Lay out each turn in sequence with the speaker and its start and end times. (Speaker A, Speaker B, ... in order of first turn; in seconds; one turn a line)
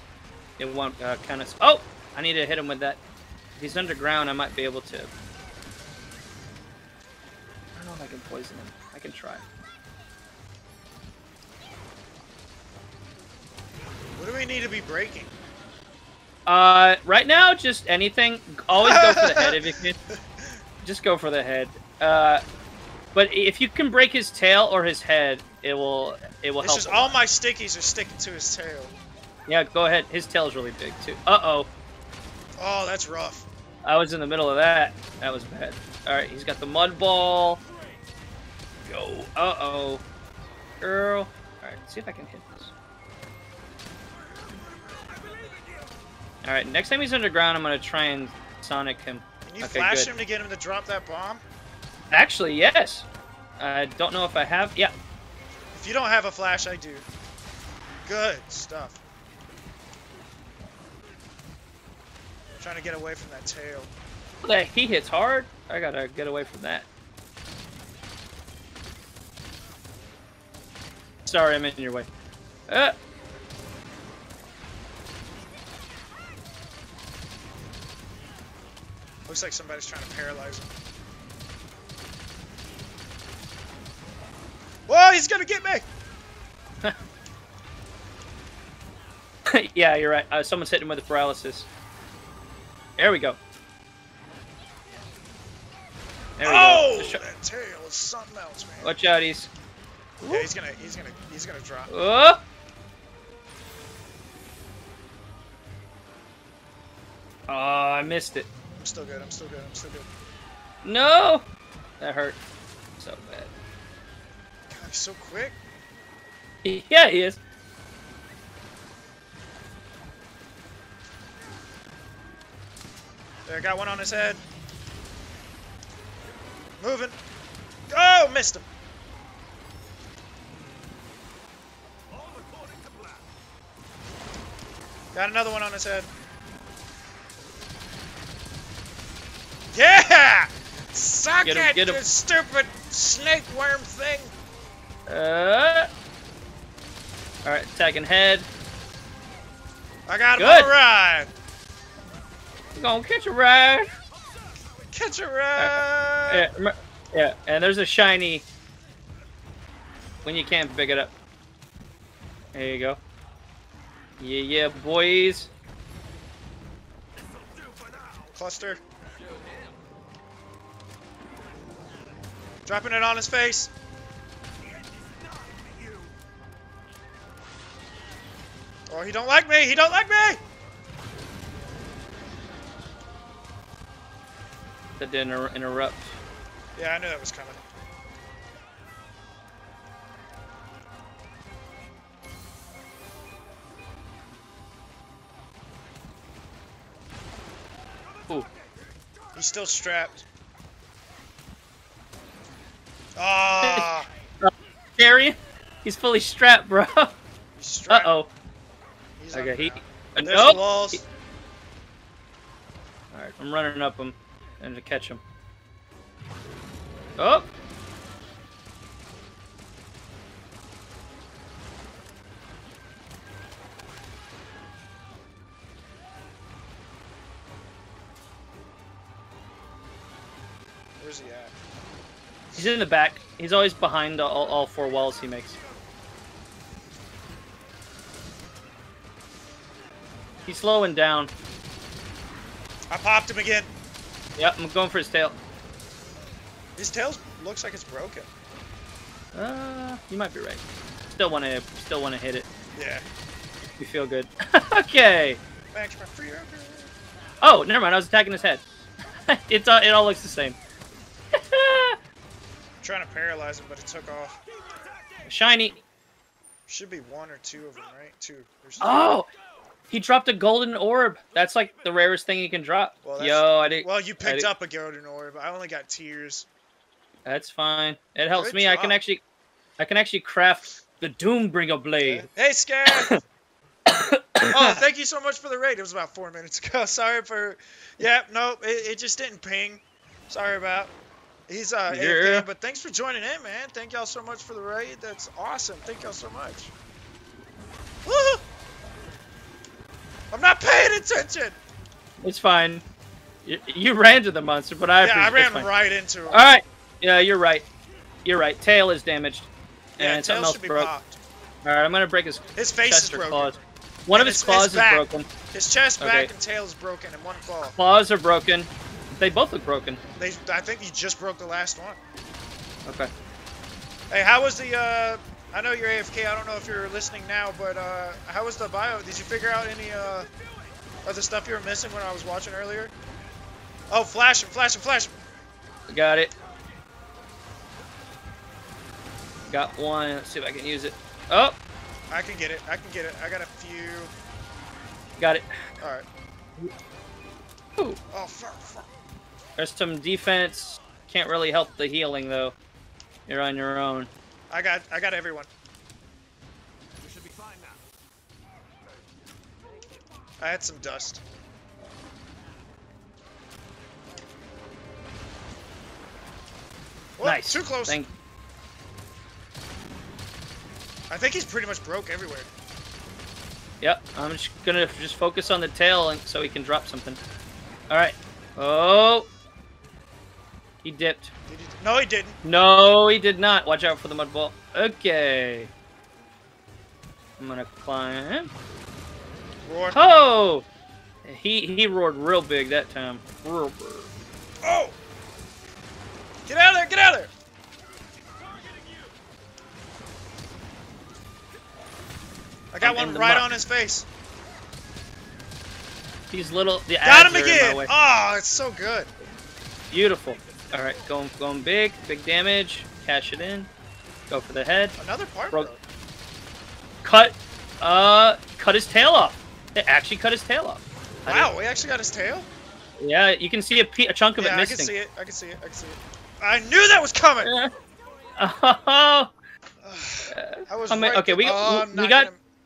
Speaker A: 0.6-3.0
Speaker A: 3.6-5.1
Speaker A: 7.8-9.4
Speaker B: 14.2-15.3
Speaker A: 16.5-20.0
Speaker B: 18.7-20.6
Speaker A: 20.8-22.4
Speaker A: 23.1-27.1
Speaker B: 26.6-29.0
Speaker A: 29.5-31.7
Speaker B: 32.6-33.5
Speaker A: 33.8-37.6
Speaker C: 37.6-38.1
Speaker A: 38.9-40.0
Speaker A: 40.8-42.7
Speaker C: 44.3-45.9
Speaker A: 46.4-50.1
Speaker B: 49.5-51.4
Speaker A: 52.1-53.1
Speaker A: 53.6-54.9
Speaker B: 55.7-57.1
Speaker B: 58.0-59.0
Speaker B: 62.6-63.9
Speaker A: 64.4-66.9
Speaker A: 71.3-72.1
Speaker A: 72.7-73.0
Speaker B: 79.3-80.7
Speaker B: 84.9-85.9
Speaker A: 89.5-91.7
Speaker A: 93.0-93.4
Speaker A: 96.4-97.2
Speaker B: 96.4-99.0
Speaker A: 98.8-99.5
Speaker A: 100.2-100.5
Speaker B: 100.3-101.9
Speaker A: 101.9-102.4
Speaker A: 107.5-108.5
Speaker B: 108.8-110.1
Speaker A: 110.8-111.5
Speaker A: 112.0-112.4
Speaker A: 113.0-113.5
Speaker B: 114.7-115.6
Speaker A: 116.6-117.4
Speaker B: 123.5-124.4
Speaker B: 126.8-127.2
Speaker B: 127.9-128.7
Speaker C: 132.1-133.3
Speaker B: 135.1-136.1
Speaker B: 139.7-144.3
Speaker A: 141.4-142.0
Speaker A: 145.1-145.9
Speaker A: 147.4-148.5
Speaker B: 150.1-151.3
Speaker A: 150.4-150.7
Speaker A: 152.8-153.9
Speaker B: 154.9-156.5
Speaker A: 155.6-158.4
Speaker A: 160.2-161.1
Speaker A: 162.5-163.0
Speaker A: 164.2-165.5
Speaker C: 167.2-168.4
Speaker B: 168.3-168.8
Speaker C: 169.0-169.8
Speaker B: 172.7-173.7
Speaker C: 174.6-176.2
Speaker B: 178.9-180.4
Speaker A: 185.0-186.1
Speaker B: 186.8-187.6
Speaker B: 199.3-200.2
Speaker B: 203.2-204.1
Speaker A: 203.6-207.1
Speaker B: 207.6-208.2
Speaker A: 207.9-208.3
Speaker B: 209.2-211.1
Speaker A: 209.3-211.0
Speaker A: 213.1-215.2
Speaker A: 217.2-217.5
Speaker B: 231.0-231.6
Speaker A: 232.6-235.6
Speaker A: 240.5-241.3
Speaker B: 242.9-243.7
Speaker A: 244.4-245.4
Speaker B: 246.8-248.3
Speaker A: 249.3-250.6
Speaker A: 251.2-252.5
Speaker B: 252.7-253.1
Speaker A: 253.8-255.4
Speaker B: 255.7-256.9
Speaker A: 257.4-258.6
Speaker A: 259.3-260.6
Speaker A: 261.3-262.0
Speaker B: 262.8-264.4
Speaker C: 264.5-265.8
Speaker A: 265.3-265.8
Speaker B: 266.7-269.1
Speaker A: 268.8-269.3
Speaker A: 269.9-274.5
Speaker C: 271.4-272.1
Speaker B: 273.0-276.5
Speaker A: 277.3-279.2
Speaker B: 278.3-279.0
Speaker A: 279.8-282.3
Speaker B: 282.0-283.1
Speaker A: 282.9-283.2
Speaker A: 283.9-284.8
Speaker B: 284.5-290.9
Speaker B: 291.5-296.7
Speaker A: 291.9-292.5
Speaker B: 298.0-298.4
Speaker B: 300.3-301.6
Speaker A: 302.2-302.8
Speaker A: 303.4-305.8
Speaker B: 305.0-306.5
Speaker A: 306.3-307.6
Speaker A: 308.2-310.9
Speaker B: 310.0-311.2
Speaker A: 311.6-315.3
Speaker B: 312.6-313.6
Speaker B: 314.1-317.8
Speaker A: 316.0-316.3
Speaker A: 317.6-320.0
Speaker B: 320.2-322.0
Speaker B: 324.1-330.3
Speaker B: 331.1-332.9
Speaker B: 333.9-335.2
Speaker A: 335.9-336.3
Speaker A: 339.5-341.6
Speaker B: 342.1-344.1
Speaker A: 345.2-345.5
Speaker B: 345.8-346.1
Speaker B: 348.1-348.9
Speaker A: 349.6-352.6
Speaker A: 353.3-354.1
Speaker B: 354.5-355.5
Speaker C: 357.0-357.9
Speaker B: 360.4-361.2
Speaker B: 367.2-368.0
Speaker A: 367.2-368.1
Speaker B: 371.1-372.5
Speaker A: 373.8-377.2
Speaker A: 377.9-379.3
Speaker A: 380.8-381.3
Speaker B: 381.5-382.4
Speaker A: 382.4-385.7
Speaker A: 387.4-388.5
Speaker B: 389.6-390.0
Speaker A: 389.9-390.7
Speaker A: 391.2-394.1
Speaker B: 394.6-395.0
Speaker B: 396.5-397.3
Speaker C: 398.4-399.1
Speaker B: 402.7-404.1
Speaker A: 402.8-403.5
Speaker A: 406.3-407.9
Speaker B: 407.0-409.1
Speaker A: 409.9-413.7
Speaker A: 414.3-415.0
Speaker B: 415.0-415.8
Speaker A: 417.0-421.5
Speaker B: 421.3-422.5
Speaker A: 423.0-424.9
Speaker B: 424.4-427.5
Speaker A: 427.4-427.7
Speaker C: 427.6-428.4
Speaker A: 428.4-429.3
Speaker B: 429.8-432.4
Speaker A: 430.3-432.3